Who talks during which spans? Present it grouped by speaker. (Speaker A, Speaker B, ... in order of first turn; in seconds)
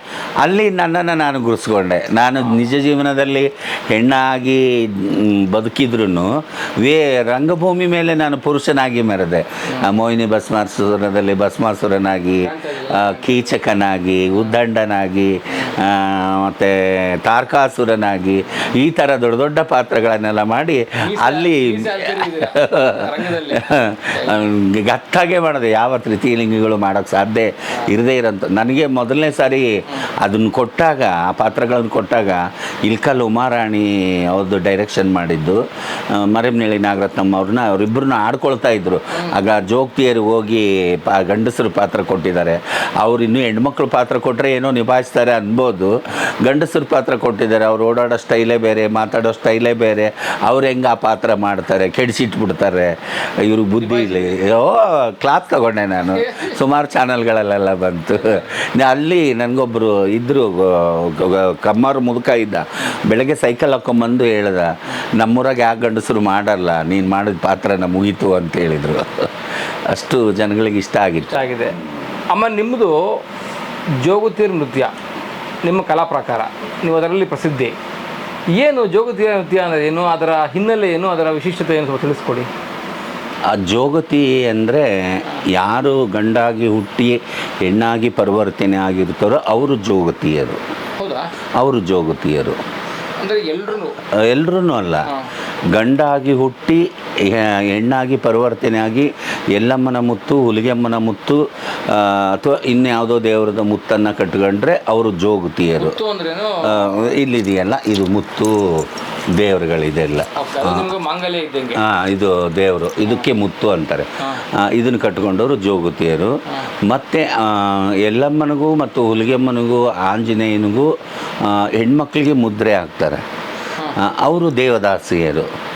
Speaker A: 0.4-29.7, 30.2-69.3, 69.9-71.5, 83.5-90.6, 91.6-92.6, 94.1-95.1, 95.7-106.0, 106.6-110.9, 111.8-123.2, 124.0-125.5
Speaker B: 12.4-13.6, 15.5-15.8, 21.0-24.4, 39.1-39.4, 53.8-54.4, 56.1-56.6, 58.1-58.5, 71.2-71.8, 72.3-73.0, 74.0-74.9, 75.6-77.8, 78.5-82.5, 91.0-91.3, 93.2-94.0, 105.8-107.1, 110.4-111.8, 114.2-114.5